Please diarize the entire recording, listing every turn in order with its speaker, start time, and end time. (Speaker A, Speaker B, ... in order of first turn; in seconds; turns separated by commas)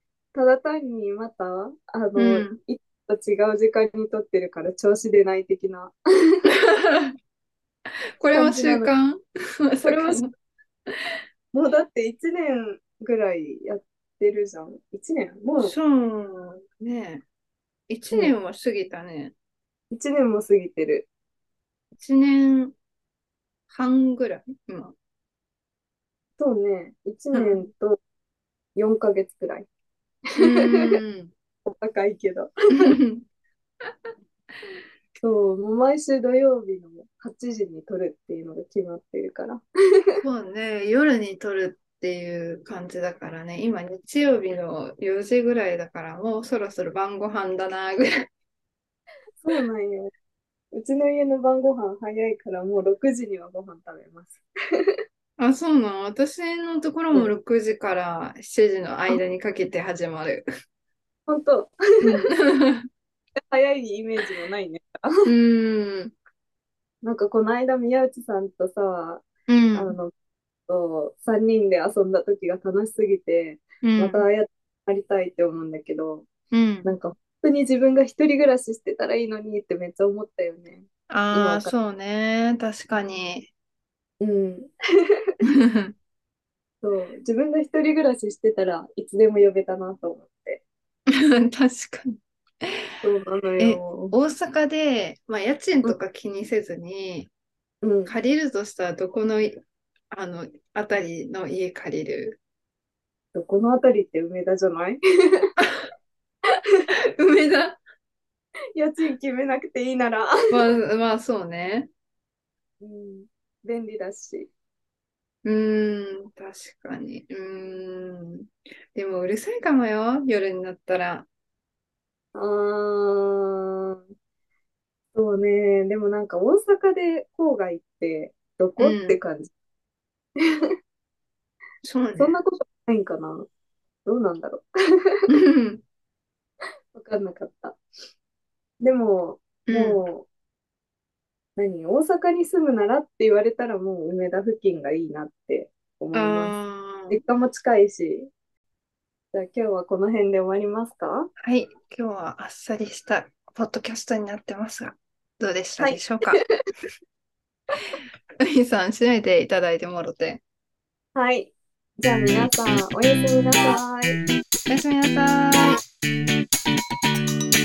Speaker A: 0.3-6.5, Speaker B: 2.1-2.6, Speaker B: 6.5-7.1, Speaker B: 8.2-10.3, Speaker A: 8.3-8.9, Speaker A: 9.8-10.3, Speaker A: 11.5-15.7, Speaker B: 15.6-17.2, Speaker B: 17.9-19.3, Speaker A: 19.9-21.1, Speaker B: 22.0-22.8, Speaker B: 23.7-24.9, Speaker A: 26.4-28.0, Speaker B: 27.3-27.6, Speaker A: 28.7-29.7, Speaker A: 30.3-30.9, Speaker B: 30.4-31.3, Speaker A: 31.6-32.9, Speaker B: 32.8-33.2, Speaker A: 35.2-40.2, Speaker B: 40.2-48.2, Speaker A: 49.4-50.1, Speaker A: 50.7-55.0, Speaker B: 55.4-60.5, Speaker A: 61.3-62.3, Speaker B: 62.0-62.9, Speaker A: 63.5-65.3, Speaker B: 65.2-66.1, Speaker A: 67.0-70.1, Speaker B: 69.5-70.0, Speaker A: 70.7-76.3, Speaker B: 73.8-74.2, Speaker B: 76.5-76.9, Speaker A: 76.8-81.7, Speaker B: 81.1-83.5, Speaker A: 84.2-84.7, Speaker B: 85.4-85.9, Speaker A: 86.8-90.6, Speaker B: 91.1-92.7, Speaker A: 93.0-94.1, Speaker B: 93.6-97.3, Speaker A: 97.8-98.1, Speaker B: 98.0-102.4, Speaker A: 103.3-105.5, Speaker B: 105.6-105.8, Speaker B: 107.2-107.8, Speaker A: 108.7-110.6, Speaker B: 110.5-111.9, Speaker A: 112.8-114.5, Speaker B: 115.4-121.3, Speaker A: 122.3-124.0, Speaker A: 125.1-129.5, Speaker B: 128.8-129.2, Speaker A: 130.4-130.7, Speaker B: 131.8-132.4, Speaker A: 132.2-133.5, Speaker A: 134.0-135.2, Speaker B: 135.3-135.8, Speaker A: 136.9-137.8, Speaker A: 138.8-140.2, Speaker B: 139.7-140.0, Speaker A: 141.6-146.6, Speaker B: 146.1-147.2, Speaker A: 147.1-148.3, Speaker A: 149.3-151.3, Speaker B: 151.4-156.4, Speaker A: 155.8-156.5, Speaker B: 158.4-160.4, Speaker A: 161.1-164.2, Speaker B: 164.7-165.8